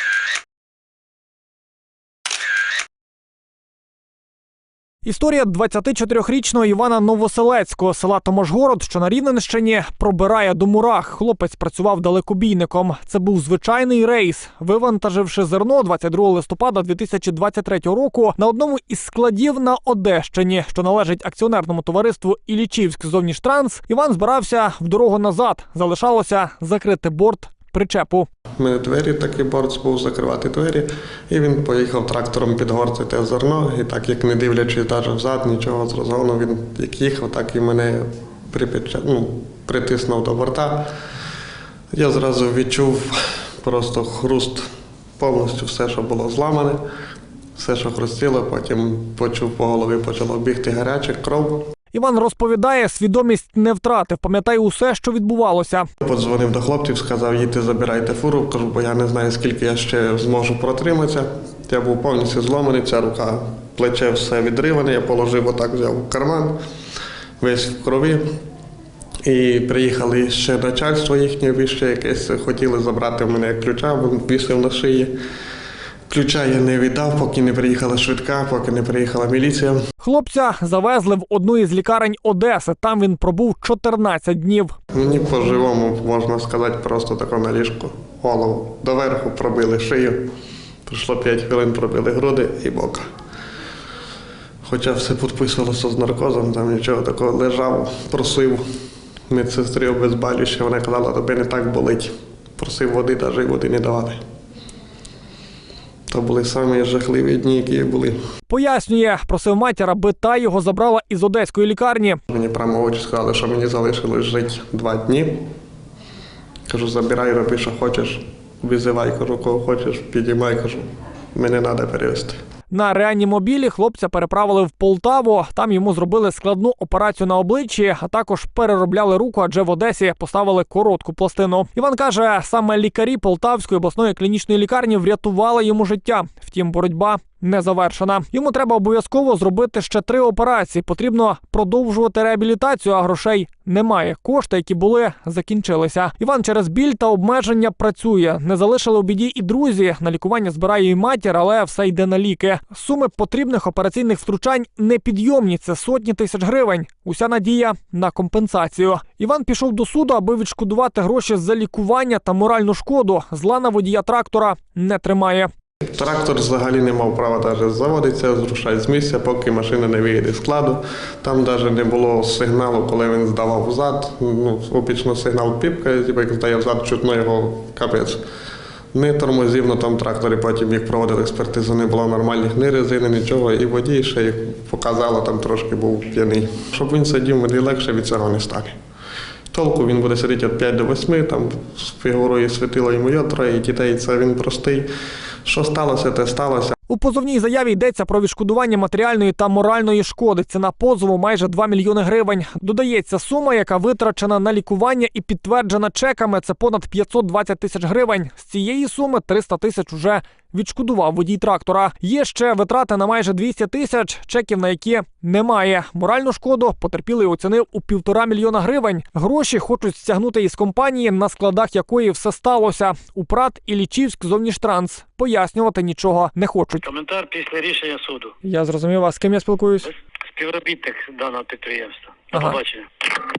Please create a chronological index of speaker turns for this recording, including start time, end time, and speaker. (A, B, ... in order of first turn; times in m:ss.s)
0:05.0-0:28.3 A
0:28.6-0:40.9 B
0:41.9-0:44.7 B
0:45.2-0:46.8 B
0:47.6-0:51.7 B
0:51.9-0:55.9 A
0:56.0-1:06.6 B
1:07.4-1:08.2 B
1:09.2-1:15.1 B
1:16.1-1:19.8 B
1:20.0-1:24.8 A
1:24.9-1:30.3 B
1:30.9-1:33.0 B
1:34.6-1:38.6 B
1:39.3-1:44.2 B
1:46.1-1:48.2 B
1:48.5-1:52.2 A
1:52.3-1:55.5 B
1:56.7-2:00.8 B
2:01.3-2:02.4 B
2:02.7-2:45.5 A
2:45.9-2:58.2 B
2:58.9-3:08.7 B
3:09.5-3:14.9 B
3:15.4-3:16.7 B
3:16.9-3:46.9 A
3:46.8-3:48.3 C
3:48.4-3:49.9 A
3:50.3-3:52.9 C
3:52.3-3:52.6 A